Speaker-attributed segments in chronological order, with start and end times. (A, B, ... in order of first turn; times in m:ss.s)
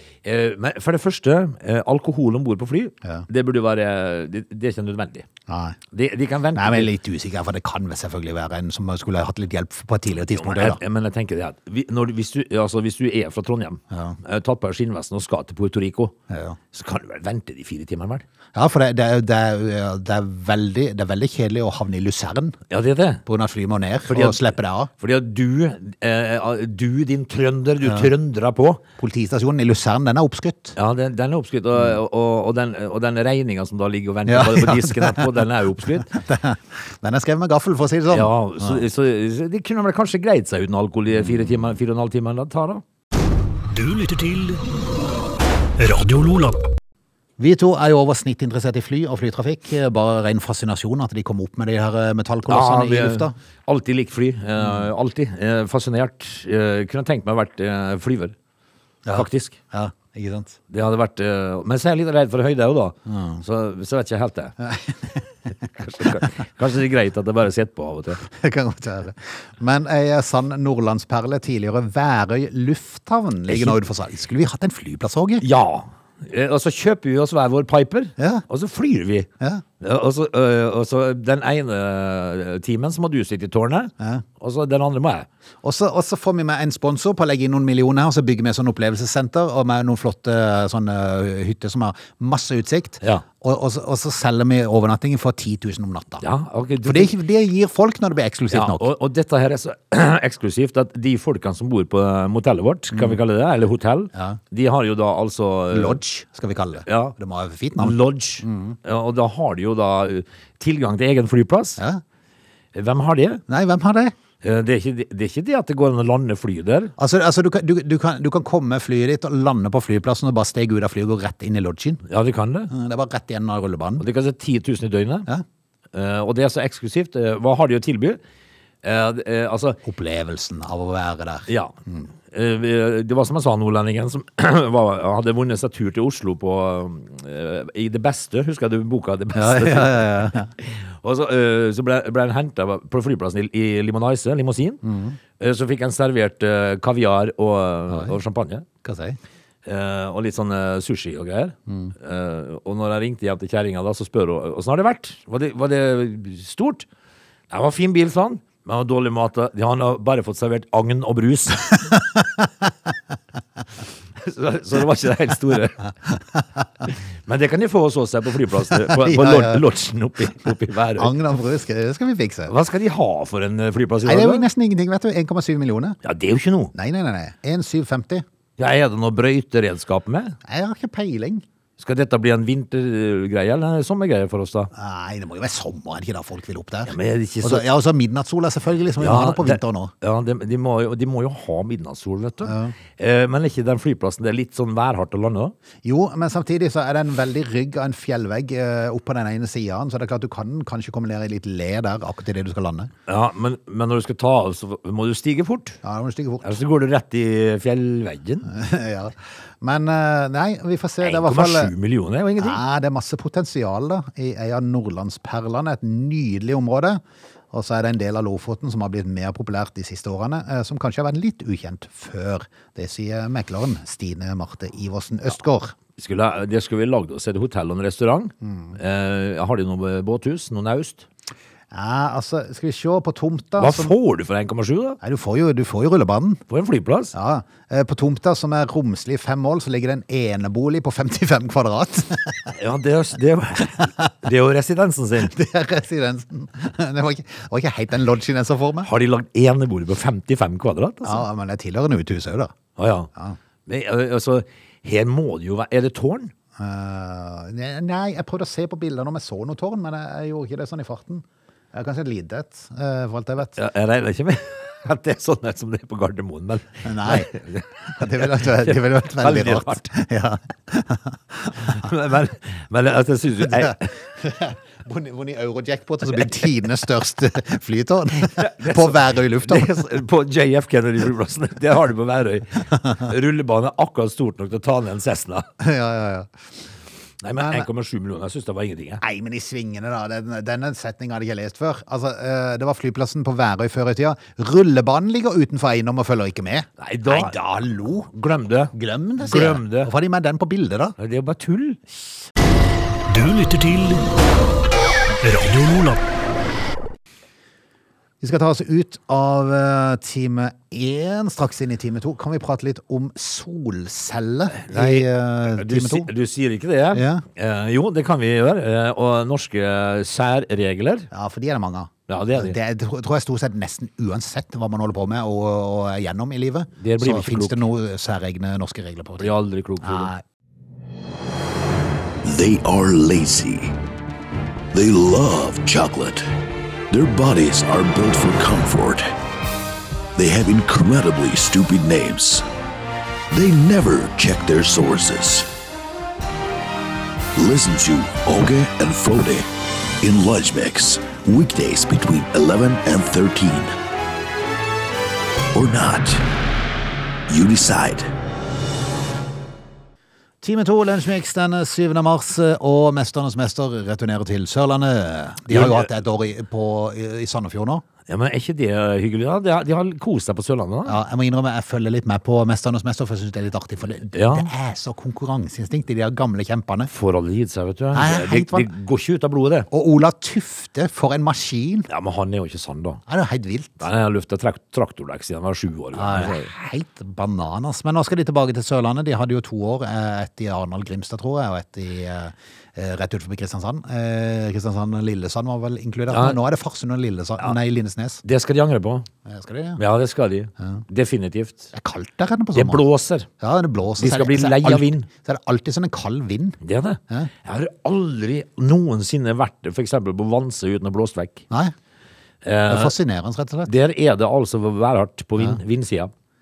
0:00.2-0:05.3 A
0:05.5-0:05.8 B
0:05.9-0:06.9 A
0:06.5-0:10.8 B
0:10.2-0:16.1 A
0:13.9-0:14.2 B
0:16.3-0:16.6 B
0:16.7-0:18.2 A
0:18.5-0:22.6 B
0:22.7-0:23.2 A
0:23.2-0:24.9 B
0:24.1-0:28.8 A
0:27.8-0:28.1 B
0:29.0-0:30.8 B
0:30.8-0:36.2 A
0:34.3-0:35.4 B
0:35.9-0:38.8 B
0:38.1-0:42.8 A
0:43.7-0:44.6 C
0:45.8-0:46.6 C
0:47.4-0:53.3 B
0:52.5-0:58.3 A
0:54.6-0:54.9 B
0:59.0-1:00.6 B
0:59.2-0:59.6 A
1:00.7-1:04.5 A
1:03.1-1:03.4 B
1:04.6-1:05.3 B
1:05.8-1:08.2 A
1:08.2-1:15.4 B
1:13.5-1:13.8 A
1:15.4-1:19.3 A
1:18.2-1:18.4 B
1:19.8-1:25.3 A
1:25.6-1:36.2 B
1:36.2-1:37.1 A
1:36.8-1:38.9 B
1:38.5-1:46.0 A
1:42.9-1:43.2 B
1:45.7-1:48.8 B
1:46.8-1:47.2 A
1:47.8-1:51.8 A
1:52.7-1:53.4 A
1:53.5-1:54.1 B
1:54.4-1:56.9 A
1:57.0-2:02.0 B
2:02.1-2:02.7 A
2:02.7-2:04.0 B
2:04.0-2:05.3 A
2:05.9-2:08.2 A
2:08.8-2:09.8 A
2:09.8-2:12.0 B
2:11.5-2:11.8 A
2:12.3-2:24.8 A
2:19.3-2:20.5 B
2:24.8-2:25.2 B
2:25.4-2:28.6 A
2:28.8-2:29.2 B
2:29.6-2:36.9 A
2:31.7-2:31.9 B
2:37.5-2:41.9 A
2:44.2-2:45.9 A
2:46.9-2:51.1 A
2:48.7-2:49.6 B
2:51.0-2:52.5 B
2:52.5-2:54.4 A
2:54.0-2:56.0 B
2:56.0-2:56.7 A
2:56.7-2:58.2 B
2:58.6-3:00.4 A
3:00.4-3:01.4 B
3:01.8-3:04.7 A
3:04.7-3:09.9 B
3:06.9-3:07.6 A
3:09.0-3:15.5 A
3:12.4-3:12.7 B
3:15.8-3:22.9 B
3:23.1-3:25.8 A
3:25.8-3:26.5 B
3:26.4-3:28.5 A
3:28.4-3:31.7 B
3:31.0-3:32.6 A
3:32.4-3:37.0 B
3:37.5-3:45.7 B
3:46.0-3:51.0 A
3:48.4-3:48.8 B
3:51.7-3:53.9 B
3:53.6-3:55.0 A
3:55.0-3:56.4 B
3:56.5-3:57.1 A
3:57.1-4:02.5 B
4:02.5-4:05.3 A
4:05.2-4:08.9 B
4:08.8-4:11.2 A
4:11.0-4:12.5 B
4:12.8-4:13.1 A
4:13.7-4:16.3 A
4:16.6-4:23.6 B
4:23.6-4:29.9 A
4:26.8-4:27.3 B
4:27.9-4:31.8 B
4:31.6-4:33.9 A
4:33.6-4:39.8 B
4:38.2-4:45.5 A
4:45.6-4:46.3 B
4:47.2-4:49.0 A
4:47.4-4:47.7 B
4:49.0-4:58.1 B
4:56.8-4:59.9 A
4:58.7-5:01.0 B
5:01.0-5:01.8 A
5:03.1-5:04.0 C
5:05.2-5:06.0 C
5:08.2-5:16.1 B
5:14.7-5:21.1 A
5:16.9-5:17.2 B
5:21.1-5:29.3 B
5:22.1-5:22.6 A
5:26.8-5:27.6 A
5:29.2-5:30.1 A
5:29.8-5:30.2 B
5:32.2-5:33.7 D
5:34.7-5:36.3 D
5:36.9-5:39.1 D
5:40.1-5:42.4 D
5:43.3-5:45.5 D
5:47.4-5:49.5 D
5:50.0-5:53.7 D
5:55.5-5:56.2 D
5:57.3-5:58.1 D
6:00.4-6:07.8 B
6:05.5-6:05.9 A
6:08.1-6:11.0 A
6:10.8-6:16.9 B
6:14.1-6:14.5 A
6:16.9-6:19.7 A
6:17.9-6:18.7 B
6:19.7-6:21.9 B
6:21.9-6:23.0 A
6:23.1-6:23.8 B
6:23.8-6:26.5 A
6:25.9-6:38.2 B
6:36.1-6:36.4 A
6:38.2-6:39.1 A
6:39.2-6:39.8 B
6:39.8-6:41.7 A
6:41.7-6:42.8 B
6:42.5-6:43.3 A
6:43.4-6:46.6 B
6:44.0-6:45.1 A
6:46.6-6:51.4 A
6:52.4-6:52.9 A
6:52.7-6:53.7 B
6:53.6-6:56.1 A